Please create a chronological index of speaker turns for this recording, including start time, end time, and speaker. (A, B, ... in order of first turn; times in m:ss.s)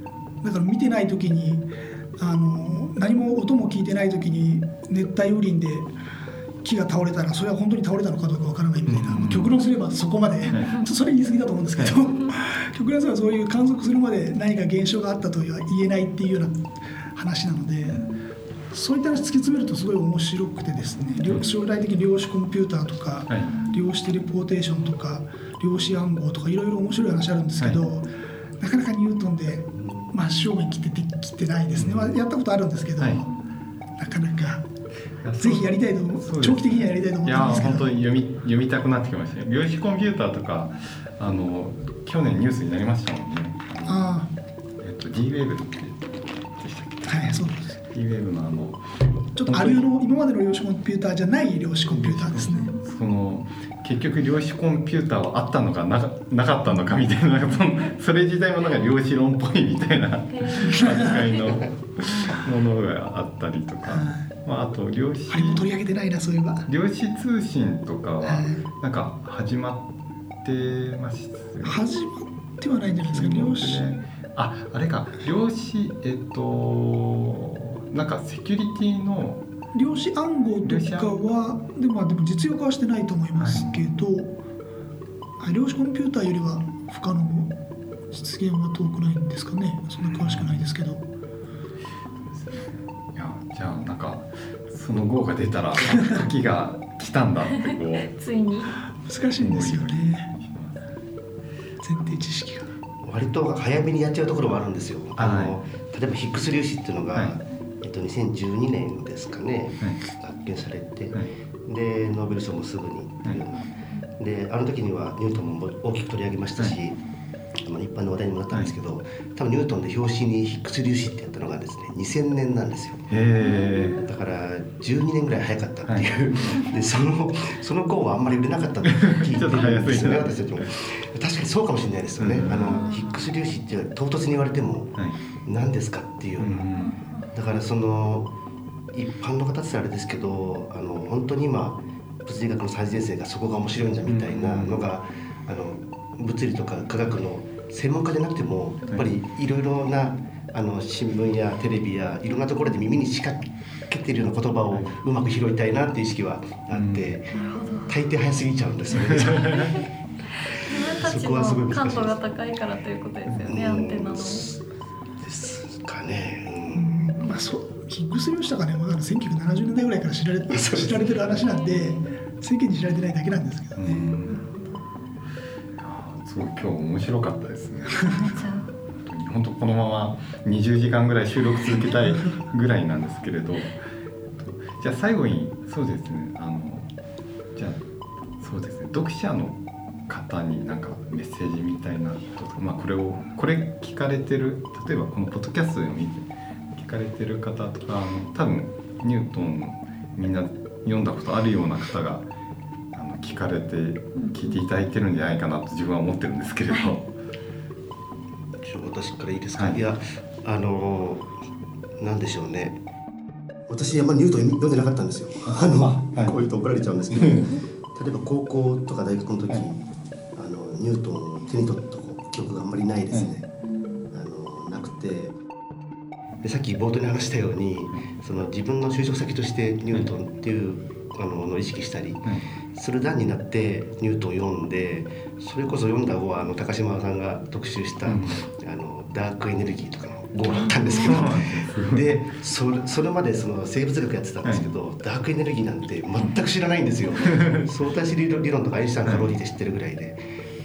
0:00.4-0:01.6 A
0:02.2-0:05.9 A
0:06.6-0:18.0 A
0:08.8-0:09.5 B
0:10.5-0:10.7 B
0:10.5-0:10.9 C
0:17.9-0:18.2 C
0:18.7-0:28.0 A
0:23.4-0:23.8 C
0:28.6-0:33.3 A
0:31.7-0:32.2 B
0:33.0-0:33.2 B
0:34.0-0:34.6 A
0:35.2-0:44.1 B
0:35.4-0:37.9 A
0:43.8-0:44.3 A
0:44.8-0:48.8 B
0:47.1-0:47.8 A
0:49.4-0:52.7 A
0:49.4-0:49.9 B
0:51.9-1:05.6 B
0:52.4-0:53.0 C
1:00.3-1:02.4 C
1:00.6-1:01.1 A
1:03.8-1:04.2 A
1:05.3-1:06.7 A
1:06.7-1:09.9 B
1:08.2-1:08.6 A
1:10.4-1:11.8 B
1:11.6-1:14.0 A
1:13.1-1:19.4 B
1:19.7-1:24.3 A
1:20.6-1:21.2 B
1:23.4-1:23.7 B
1:25.4-1:27.5 A
1:28.1-1:31.0 A
1:30.1-1:30.6 B
1:32.3-1:38.1 B
1:35.9-1:36.2 A
1:38.0-1:38.8 C
1:39.0-1:40.3 A
1:39.4-1:40.9 B
1:41.8-1:42.7 A
1:43.0-1:53.6 D
1:45.2-1:45.6 B
1:54.2-1:57.0 D
1:57.6-2:03.0 D
2:03.1-2:04.1 B
2:03.4-2:04.1 C
2:04.0-2:16.6 D
2:08.8-2:10.6 B
2:12.2-2:12.8 B
2:12.7-2:13.2 C
2:16.4-2:16.9 B
2:16.8-2:17.3 C
2:17.3-2:18.3 D
2:18.9-2:39.8 D
2:24.0-2:24.8 B
2:36.7-2:37.1 B
2:37.3-2:38.0 C
2:39.0-2:39.8 B
2:39.0-2:39.8 C
2:40.4-2:44.5 C
2:40.6-2:42.2 D
2:43.4-2:44.6 D
2:45.2-2:47.0 D
2:46.7-2:54.1 A
2:50.5-2:51.1 D
2:51.3-2:52.1 C
2:53.8-2:54.4 B
2:54.3-2:54.8 C
2:55.8-3:03.8 B
2:58.0-2:58.7 C
3:04.4-3:06.9 B
3:07.5-3:07.8 B
3:08.4-3:22.2 B
3:22.9-3:27.0 B
3:24.1-3:24.6 C
3:26.7-3:27.0 C
3:28.6-3:31.3 D
3:32.0-3:32.8 D
3:33.7-3:39.8 D
3:35.4-3:36.3 B
3:37.2-3:37.5 B
3:40.3-3:43.5 D
3:43.6-3:44.1 C
3:44.1-3:45.3 D
3:46.4-4:10.2 D
3:58.0-3:58.4 B
4:00.5-4:01.3 C
4:00.9-4:02.1 B
4:06.2-4:06.4 C
4:07.3-4:07.6 B
4:09.0-4:09.3 B